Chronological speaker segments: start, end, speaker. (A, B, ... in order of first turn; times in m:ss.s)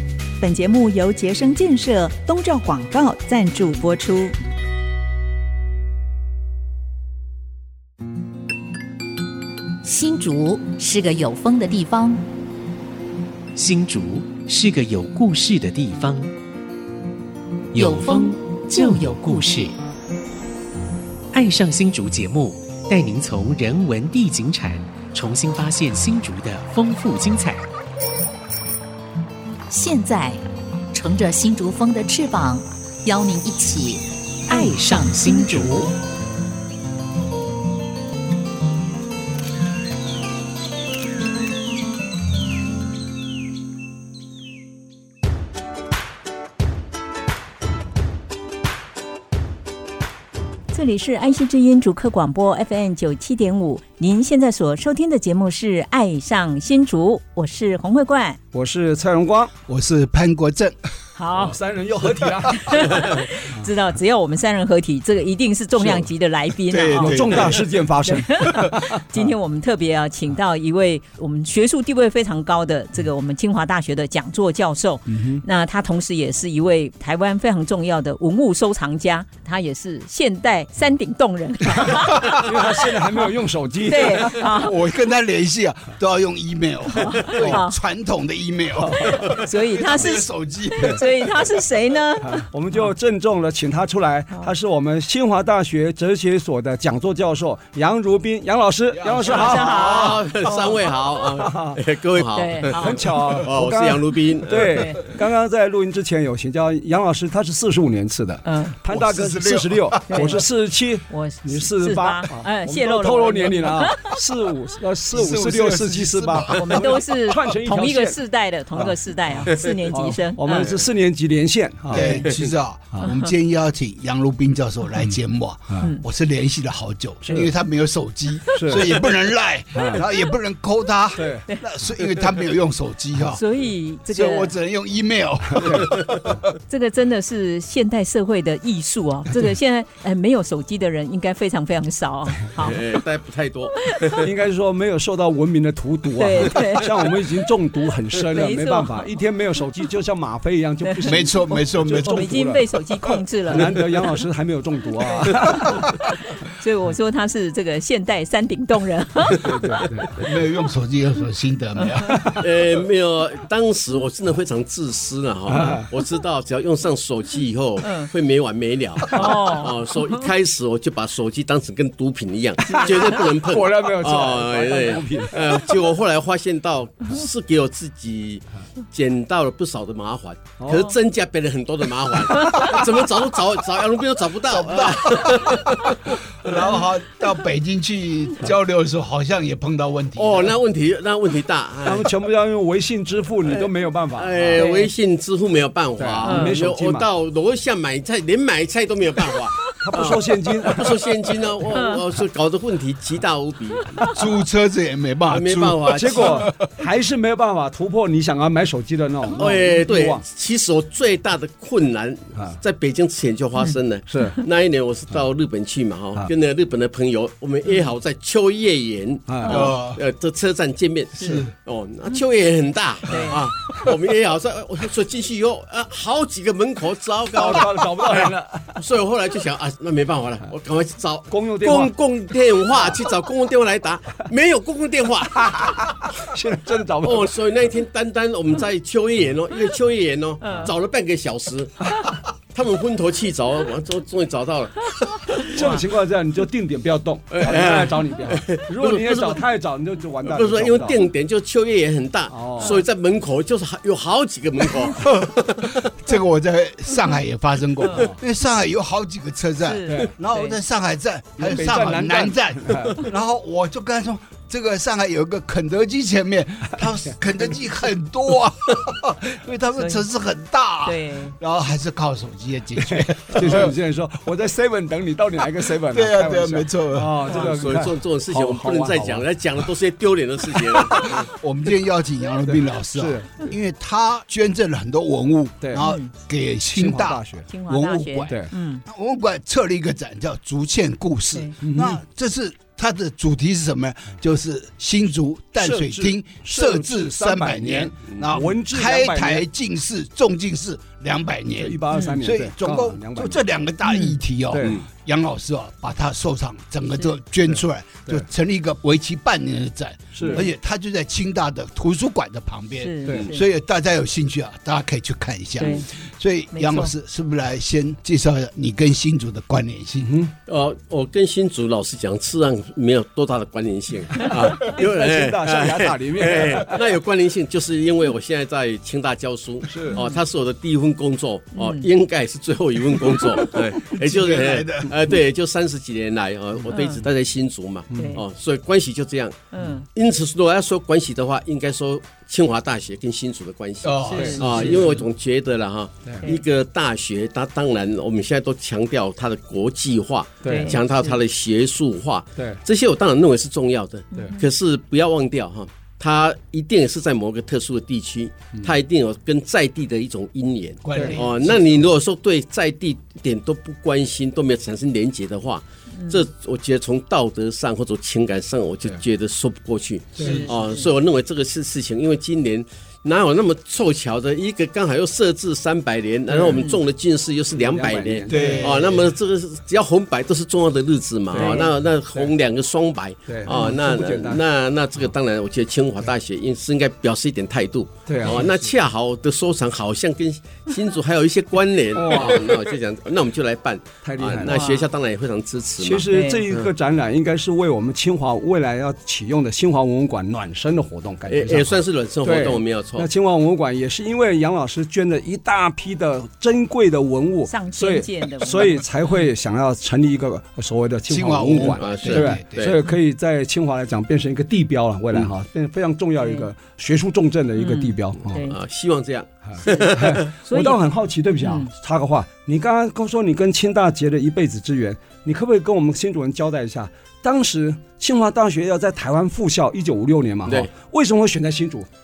0:00.4-0:04.3 A
0:09.8-0:12.3 B
0:13.6-0:16.3 C
0:17.7-0:19.8 C
0:17.8-0:19.6 B
0:21.3-0:27.7 C
0:29.7-0:30.4 B
0:30.9-0:35.9 B
0:34.5-0:35.9 C
0:50.7-0:58.4 D
0:58.5-0:59.5 E
0:59.7-1:00.8 F
1:01.2-1:01.6 D
1:01.4-1:03.6 E
1:02.5-1:07.5 D
1:06.7-1:07.7 F
1:07.0-1:09.3 E
1:08.1-1:23.3 D
1:08.5-1:08.9 F
1:15.1-1:15.4 E
1:22.4-1:24.4 E
1:23.8-1:24.8 D
1:24.2-1:31.1 F
1:26.9-1:27.8 D
1:27.3-1:27.6 E
1:28.8-1:29.3 E
1:29.4-1:32.8 D
1:32.2-1:40.0 E
1:38.9-1:40.2 F
1:39.2-1:40.8 D
1:39.7-1:44.8 G
1:41.4-1:41.8 E
1:42.3-1:43.1 D
1:42.7-1:58.2 E
1:44.7-1:45.0 D
1:48.4-1:48.8 D
1:48.9-1:50.4 F
1:50.1-1:50.5 D
1:51.1-1:54.2 D
1:55.1-1:57.0 F
1:56.5-2:00.7 D
1:58.8-2:02.2 E
2:01.9-2:13.4 F
2:03.0-2:03.3 D
2:07.2-2:07.5 E
2:08.5-2:09.1 E
2:09.7-2:10.0 E
2:11.2-2:11.4 E
2:13.3-2:14.5 D
2:14.1-2:16.4 F
2:15.5-2:15.9 E
2:16.7-2:23.0 D
2:22.6-2:24.3 G
2:23.9-2:24.2 D
2:24.2-2:32.6 E
2:26.2-2:27.1 D
2:28.3-2:29.1 D
2:30.8-2:33.8 D
2:31.0-2:32.3 F
2:33.5-2:36.0 E
2:35.2-2:36.0 D
2:36.5-2:39.6 D
2:39.4-2:40.2 E
2:40.2-2:42.4 F
2:41.8-2:42.1 D
2:42.1-2:42.4 E
2:42.4-3:06.5 G
2:45.5-2:45.9 E
2:47.8-2:48.1 D
2:49.1-2:50.2 D
2:52.7-2:55.7 E
3:00.6-3:00.9 E
3:04.5-3:10.6 F
3:10.2-3:12.1 G
3:11.8-3:14.6 E
3:13.4-3:24.0 G
3:14.6-3:14.9 D
3:16.0-3:17.1 E
3:16.2-3:16.6 D
3:19.8-3:21.1 E
3:24.1-3:26.6 F
3:25.3-3:26.5 G
3:25.9-3:30.2 E
3:29.3-3:55.9 G
3:34.1-3:34.4 E
3:39.3-3:39.7 E
3:39.4-3:40.0 F
3:41.2-3:41.5 F
3:43.1-3:43.4 D
3:47.3-3:48.8 E
3:51.3-3:51.9 E
3:52.7-3:53.0 E
3:55.4-3:57.3 E
3:57.0-4:01.9 G
4:00.4-4:00.7 D
4:02.5-4:05.7 G
4:05.5-4:11.0 E
4:07.3-4:09.5 G
4:10.2-4:15.8 G
4:12.3-4:12.8 E
4:15.0-4:15.4 F
4:16.0-4:33.8 F
4:17.9-4:18.2 E
4:19.6-4:20.6 D
4:21.4-4:23.0 E
4:29.8-4:30.0 D
4:30.8-4:31.4 D
4:32.9-4:39.2 E
4:35.9-4:37.3 F
4:37.3-4:41.3 G
4:41.0-5:20.2 F
4:42.5-4:43.4 E
4:45.7-4:46.1 D
4:46.7-4:47.5 E
4:47.5-4:48.8 D
4:51.6-4:52.0 E
4:55.6-4:59.5 E
5:01.6-5:03.4 E
5:01.9-5:02.2 D
5:03.9-5:04.2 D
5:04.5-5:04.8 E
5:10.2-5:10.5 E
5:10.2-5:10.5 D
5:12.8-5:13.4 D
5:15.6-5:15.9 D
5:16.5-5:16.9 D
5:20.0-5:20.3 E
5:20.5-6:36.7 G
5:24.3-5:26.8 E
5:29.7-5:30.0 E
5:31.6-5:31.9 D
5:33.9-5:35.0 F
5:36.7-5:37.0 D
5:37.9-5:38.2 D
5:37.9-5:38.2 E
5:39.5-5:39.9 D
5:43.8-5:45.0 F
5:44.1-5:44.5 D
5:44.2-5:45.0 E
5:50.4-5:50.8 E
5:50.5-5:51.2 D
5:54.1-5:54.4 D
6:00.8-6:01.8 F
6:01.0-6:01.2 D
6:05.9-6:06.2 D
6:10.2-6:10.5 F
6:10.2-6:10.9 D
6:16.3-6:16.6 E
6:16.5-6:16.8 D
6:17.6-6:18.7 E
6:18.3-6:19.1 F
6:21.3-6:21.7 D
6:21.3-6:21.6 E
6:23.3-6:24.4 E
6:28.1-6:28.5 E
6:31.9-6:32.5 E
6:34.0-6:34.6 E
6:34.5-6:34.9 D
6:35.8-6:58.4 E
6:36.1-6:36.4 D
6:41.3-6:43.1 G
6:47.5-6:49.2 D
6:51.1-6:52.6 F
6:51.6-6:52.8 G
6:56.2-6:56.5 D
6:57.6-6:58.6 D
6:58.4-7:00.3 G
6:59.5-7:11.9 E
6:59.6-7:01.7 D